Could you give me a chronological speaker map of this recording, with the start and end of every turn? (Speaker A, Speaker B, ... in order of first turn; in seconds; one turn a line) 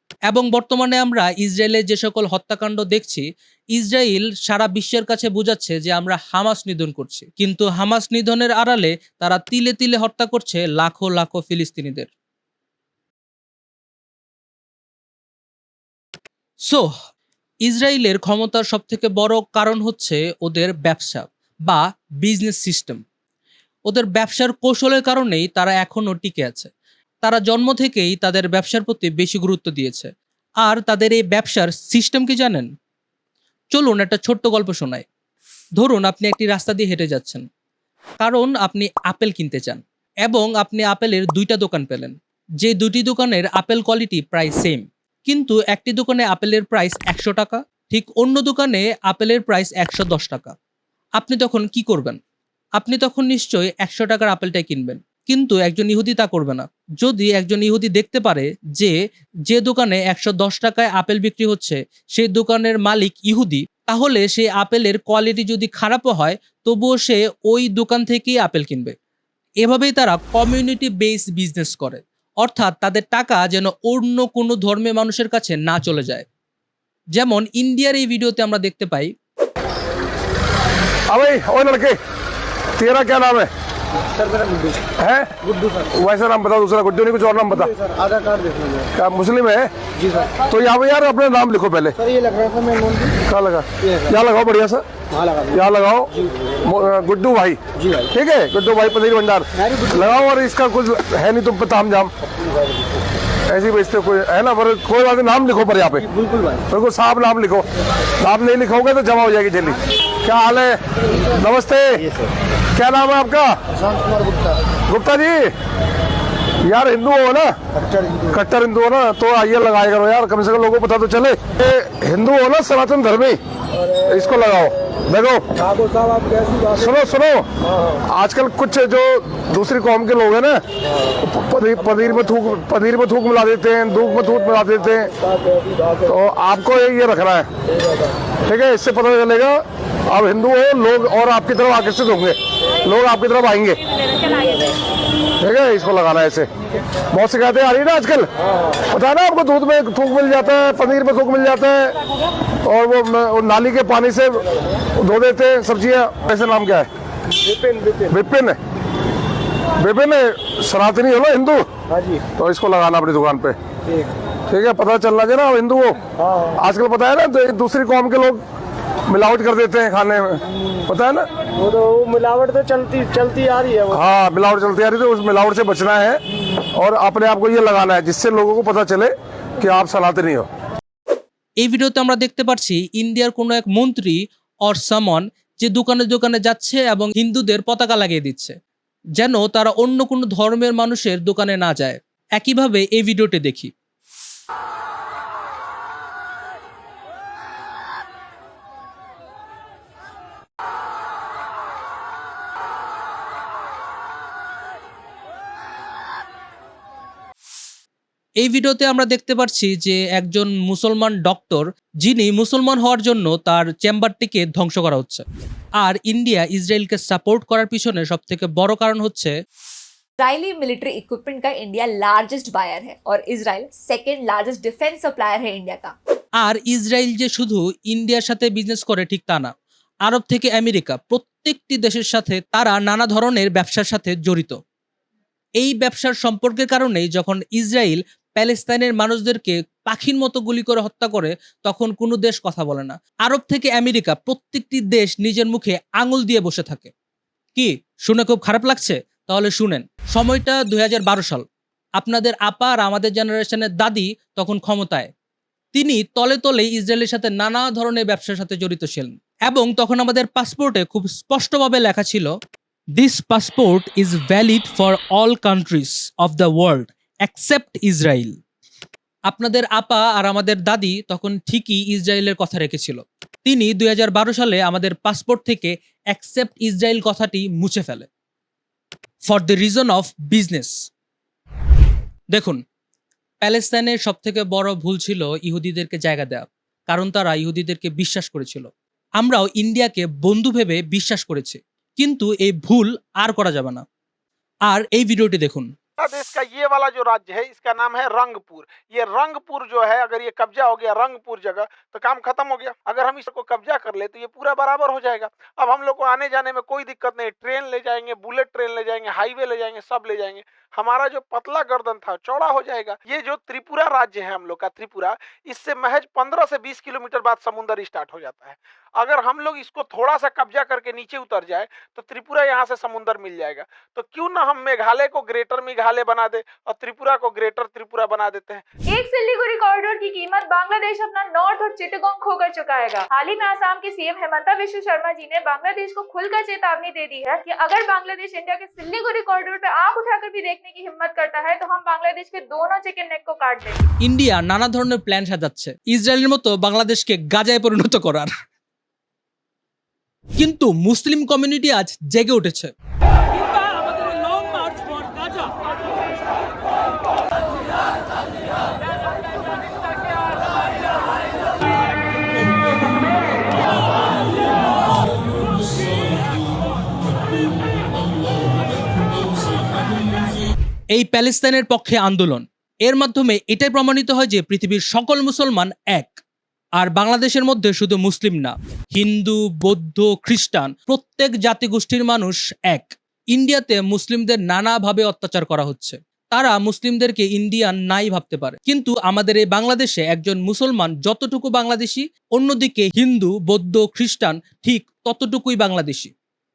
Speaker A: 0.3-12.1
Speaker A: 17.6-23.0
Speaker A: 23.9-26.7
Speaker A: 27.2-30.1
Speaker A: 30.6-32.7
Speaker A: 33.7-35.0
Speaker A: 35.8-37.4
Speaker A: 38.2-50.5
Speaker A: 51.2-52.2
Speaker A: 52.8-58.9
Speaker A: 59.5-68.9
Speaker A: 69.6-76.2
Speaker A: 77.1-79.1
Speaker B: 81.1-82.0
Speaker B: 82.8-83.5
Speaker C: 84.2-84.8
Speaker B: 85.0-85.3
Speaker B: 85.9-87.7
Speaker C: 88.0-88.8
Speaker B: 88.9-89.7
Speaker B: 90.4-92.0
Speaker C: 92.1-93.1
Speaker B: 93.2-94.8
Speaker B: 95.5-96.1
Speaker B: 96.6-97.6
Speaker B: 98.1-102.1
Speaker B: 103.5-106.1
Speaker B: 106.7-107.6
Speaker B: 108.2-112.1
Speaker B: 112.7-113.6
Speaker B: 114.9-115.5
Speaker B: 116.6-117.5
Speaker B: 118.3-123.4
Speaker B: 124.0-125.5
Speaker C: 125.7-126.8
Speaker B: 126.7-127.5
Speaker B: 128.1-130.6
Speaker B: 131.2-135.1
Speaker B: 136.1-137.5
Speaker B: 138.4-143.8
Speaker B: 145.4-146.5
Speaker B: 147.1-152.0
Speaker B: 152.6-156.9
Speaker C: 157.4-158.1
Speaker B: 158.1-158.6
Speaker B: 159.8-161.7
Speaker C: 161.9-162.2
Speaker B: 162.3-163.6
Speaker B: 164.5-166.0
Speaker B: 166.5-168.4
Speaker B: 169.1-171.3
Speaker C: 171.6-173.9
Speaker B: 173.9-176.2
Speaker B: 176.7-180.5
Speaker A: 181.6-188.6
Speaker A: 189.2-193.7
Speaker A: 208.4-215.2
Speaker A: 215.8-219.3
Speaker D: 220.2-225.9
Speaker A: 226.4-229.5
Speaker A: 230.1-234.6
Speaker A: 235.6-246.9
Speaker A: 247.6-251.4
Speaker A: 252.0-255.1
Speaker A: 255.7-262.3
Speaker A: 263.0-268.4
Speaker A: 269.3-278.1
Speaker A: 279.2-280.7
Speaker A: 282.3-282.6
Speaker A: 283.4-293.8
Speaker A: 294.7-295.7
Speaker E: 296.0-328.6
Speaker F: 328.9-343.8
Speaker A: 344.0-348.3
Speaker A: 350.4-352.7
Speaker A: 370.9-376.1
Speaker A: 376.8-396.1